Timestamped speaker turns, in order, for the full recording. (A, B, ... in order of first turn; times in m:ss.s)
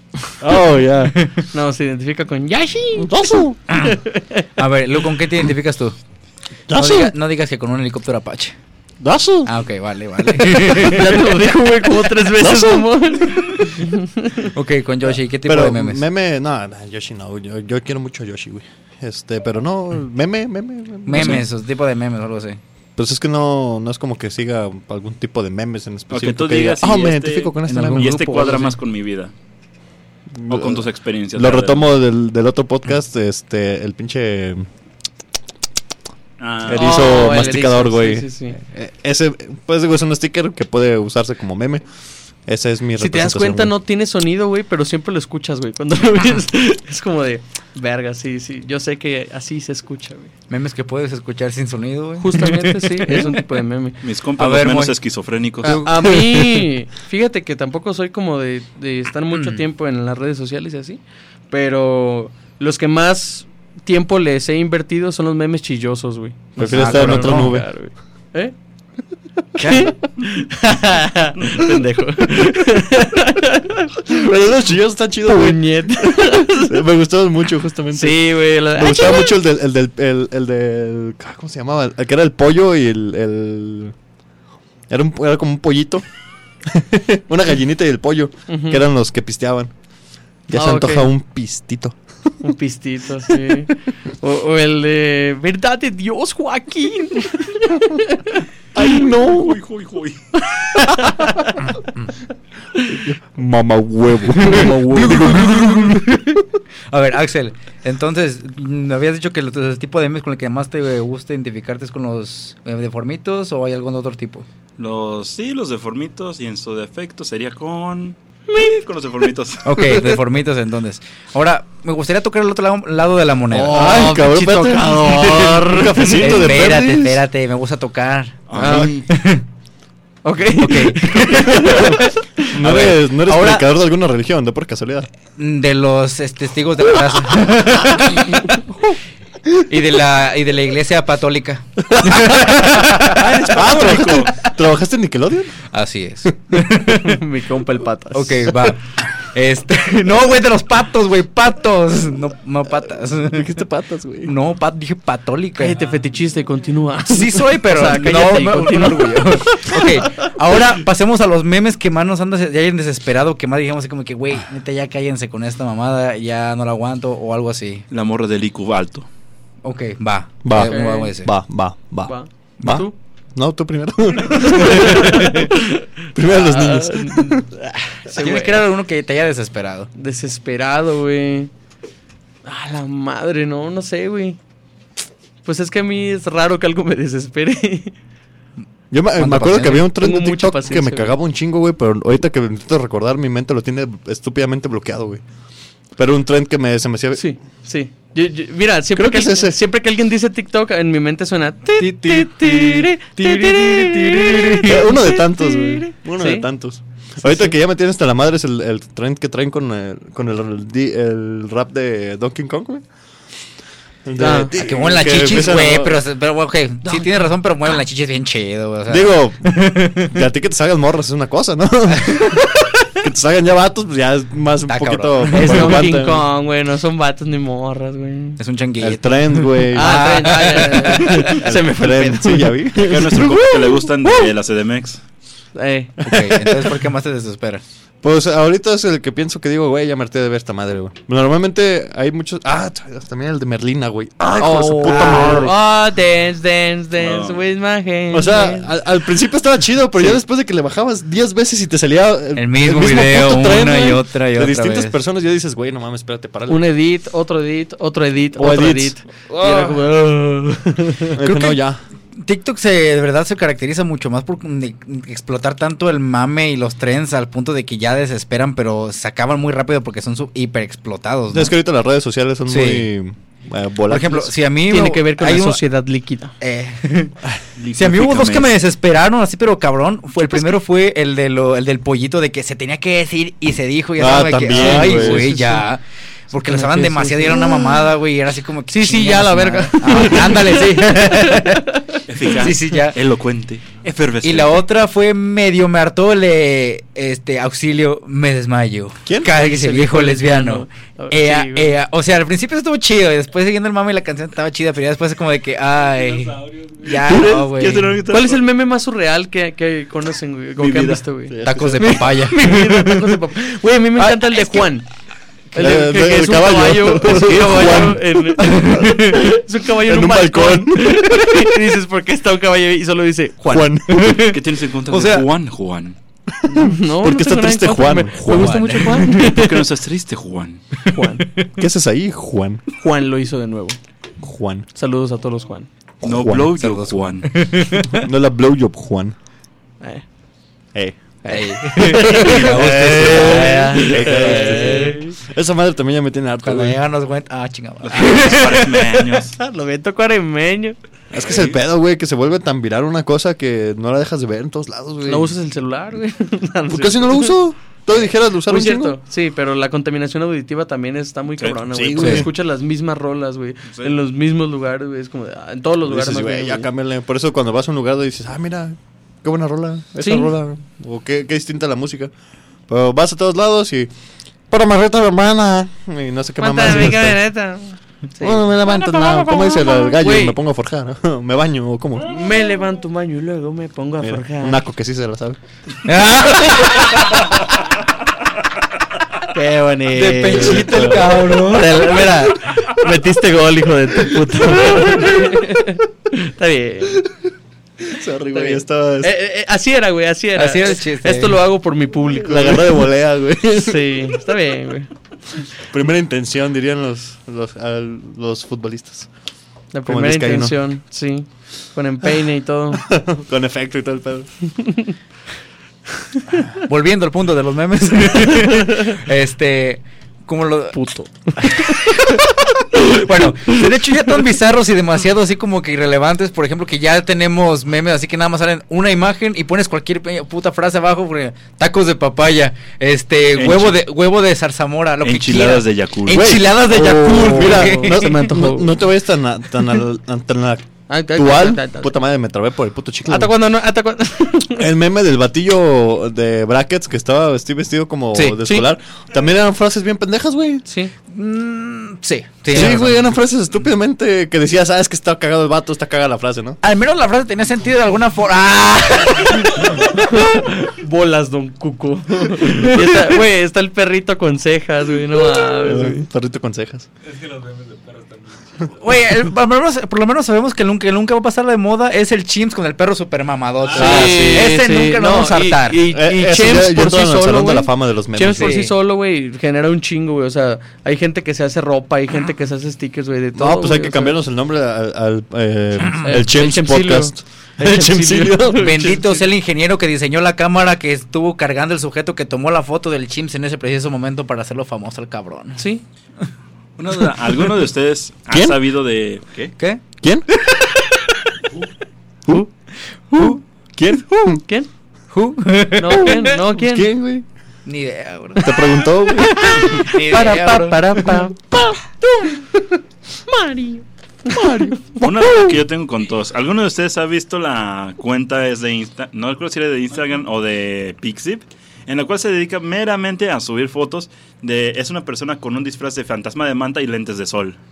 0:00.4-0:01.2 A
0:01.1-0:01.4 B
0:01.5-0:04.4 C
0:03.0-0:03.6 A
0:04.6-0:06.0 B
0:06.7-0:07.1 A
0:06.7-0:08.5 B
0:09.0-0:09.5 A
0:09.4-0:11.2 B
0:10.5-0:14.5 C
0:10.8-0:13.7 A
0:14.5-0:16.0 B
0:15.0-0:21.5 A
0:21.0-0:22.6 B
0:23.0-0:28.3 A
0:26.1-0:29.3 D
0:27.6-0:28.8 B
0:30.3-0:34.6 A
0:30.5-0:31.9 D
0:36.4-0:37.4 D
0:36.6-0:41.8 A
0:36.7-0:38.6 C
0:42.4-0:43.7 A
0:43.0-0:50.3 C
0:50.5-0:53.3 B
0:52.2-0:54.0 C
0:54.0-0:55.8 D
0:54.4-0:55.0 B
0:55.6-1:08.5 C
0:55.8-0:56.7 A
1:06.6-1:07.7 A
1:06.6-1:07.6 B
1:09.6-1:09.9 B
1:09.6-1:14.2 C
1:14.1-1:23.9 A
1:15.2-1:16.8 C
1:17.9-1:19.3 C
1:24.9-1:26.0 A
1:26.6-1:29.7 A
1:28.5-1:28.8 C
1:30.5-1:32.0 A
1:30.5-1:31.1 C
1:32.4-1:38.2 C
1:38.7-1:39.6 A
1:39.2-1:40.2 D
1:40.6-1:41.4 C
1:40.9-1:41.2 A
1:42.9-1:46.2 A
1:44.5-1:46.4 B
1:46.9-1:54.4 B
1:54.8-1:59.6 D
1:58.5-1:58.8 C
1:59.6-2:04.5 B
2:03.5-2:06.5 C
2:03.7-2:07.2 A
2:06.2-2:09.4 B
2:08.5-2:08.9 D
2:08.6-2:08.9 A
2:08.6-2:09.0 C
2:10.2-2:12.1 C
2:10.6-2:11.9 B
2:11.4-2:15.1 A
2:12.5-2:13.7 B
2:15.4-2:18.6 B
2:19.5-2:24.0 B
2:22.0-2:25.6 A
2:23.1-2:24.3 D
2:25.7-2:27.2 B
2:26.8-2:28.7 C
2:28.1-2:33.5 B
2:33.2-2:34.3 A
2:34.2-2:35.8 B
2:35.6-2:39.9 C
2:37.1-2:47.8 B
2:47.9-2:49.1 D
2:49.6-2:51.3 B
2:50.4-2:55.5 A
2:50.6-2:51.1 C
2:52.0-2:52.9 C
2:54.4-2:55.6 C
2:56.1-2:57.5 A
2:56.2-2:58.7 C
2:58.1-2:59.9 B
2:59.9-3:01.5 C
3:02.4-3:04.4 C
3:05.4-3:07.9 C
3:08.9-3:15.2 A
3:09.2-3:09.9 B
3:10.0-3:11.1 C
3:16.0-3:17.3 A
3:17.1-3:26.5 C
3:18.9-3:19.6 A
3:21.8-3:24.8 B
3:24.6-3:32.8 A
3:27.2-3:27.5 C
3:34.0-3:36.0 A
3:34.2-3:34.5 C
3:34.5-3:40.1 B
3:38.9-3:46.2 A
3:42.0-3:42.4 B
3:44.7-3:45.9 B
3:45.3-3:48.4 C
3:48.4-3:51.4 B
3:48.8-3:53.5 A
3:49.7-3:52.6 C
3:52.8-3:55.0 D
3:55.5-3:55.9 C
3:56.0-3:57.6 B
3:56.1-3:56.7 A
3:58.0-4:05.5 A
4:04.4-4:08.7 C
4:04.8-4:05.5 B
4:07.0-4:07.4 D
4:08.1-4:16.6 A
4:12.4-4:15.0 B
4:16.5-4:21.2 C
4:18.4-4:19.9 A
4:21.1-4:21.8 A
4:21.2-4:21.6 B
4:22.2-4:31.6 B
4:31.3-4:34.3 A
4:32.5-4:32.9 B
4:33.9-4:35.6 B
4:34.7-4:36.3 C
4:36.4-4:37.1 B
4:37.6-4:38.5 D
4:37.7-4:51.7 B
4:44.0-4:45.4 A
4:46.4-4:47.9 C
4:48.7-4:51.6 C
4:52.1-4:54.6 D
4:52.3-4:53.0 B
4:54.2-5:08.0 B
4:59.0-4:59.3 A
4:59.2-5:01.7 C
5:05.8-5:07.2 E
5:07.0-5:08.4 D
5:08.1-5:14.9 C
5:10.6-5:11.0 D
5:11.3-5:12.2 A
5:11.4-5:13.1 B
5:14.1-5:14.5 A
5:15.5-5:23.7 C
5:15.5-5:18.4 A
5:18.4-5:19.2 B
5:19.8-5:21.5 A
5:23.5-5:24.2 A
5:23.9-5:24.4 B
5:24.3-5:26.0 D
5:24.9-5:25.2 B
5:26.3-5:29.0 A
5:26.5-5:29.7 C
5:28.2-5:29.3 B
5:29.1-5:30.6 D
5:30.8-5:31.3 C
5:31.6-5:32.6 A
5:32.8-5:33.8 C
5:34.2-5:34.6 A
5:34.7-5:35.7 C
5:36.0-5:36.5 A
5:36.0-5:37.5 D
5:36.6-5:38.0 B
5:37.9-5:39.1 A
5:41.2-5:45.2 C
5:41.3-5:45.0 B
5:41.8-5:46.8 A
5:46.4-5:48.7 B
5:47.8-5:49.4 D
5:48.0-5:50.8 C
5:51.1-5:55.3 A
5:51.2-5:51.6 D
5:55.0-5:57.4 C
5:56.7-5:59.0 A
5:57.9-6:06.7 C
6:01.4-6:02.1 D
6:01.7-6:02.3 A
6:02.0-6:02.3 B
6:03.7-6:04.0 D
6:05.8-6:12.1 A
6:10.0-6:10.3 C
6:12.7-6:13.9 A
6:14.5-6:17.2 A
6:16.4-6:20.4 C
6:18.2-6:22.1 A
6:22.0-6:24.6 C
6:24.0-6:25.4 A
6:25.8-6:27.3 B
6:29.3-6:37.1 C
6:29.9-6:32.1 B
6:30.3-6:31.4 A
6:37.8-6:39.1 A
6:38.3-6:42.9 C
6:40.3-6:41.4 B
6:42.1-6:44.0 A
6:43.6-6:44.9 C
6:45.7-6:49.1 A
6:49.7-6:52.9 C
6:49.8-6:50.6 A
6:52.7-6:54.3 A
6:56.6-7:00.8 B
7:00.7-7:02.0 C
7:01.4-7:18.2 B
7:13.4-7:13.8 D
7:15.0-7:16.3 D
7:16.1-7:23.3 A
7:17.3-7:18.8 C
7:20.9-7:21.9 C
7:23.1-7:24.7 C
7:24.6-7:30.6 A
7:28.4-7:28.7 C
7:30.6-7:30.9 C
7:31.1-7:33.1 B
7:32.5-7:36.6 A
7:36.6-7:39.8 B
7:39.5-7:39.9 E
7:39.9-7:46.0 C
7:45.5-7:46.8 A
7:47.0-7:49.0 E
7:48.8-7:55.8 B
7:53.6-7:54.3 E
7:53.8-7:54.5 A
7:53.8-8:04.1 C
7:53.8-7:54.4 D
7:55.8-7:58.6 A
7:58.4-7:58.7 B
8:03.3-8:08.8 A
8:06.0-8:09.2 C
8:08.5-8:15.6 B
8:15.6-8:15.8 C
8:16.8-8:19.5 D
8:18.3-8:18.6 A
8:23.2-8:24.4 A
8:25.1-8:26.3 B
8:25.8-8:26.9 C
8:26.5-8:27.2 A
8:27.6-8:30.8 B
8:28.4-8:29.6 A
8:29.4-8:31.7 C
8:33.3-8:34.7 C
8:34.3-8:35.0 A
8:35.0-8:47.6 D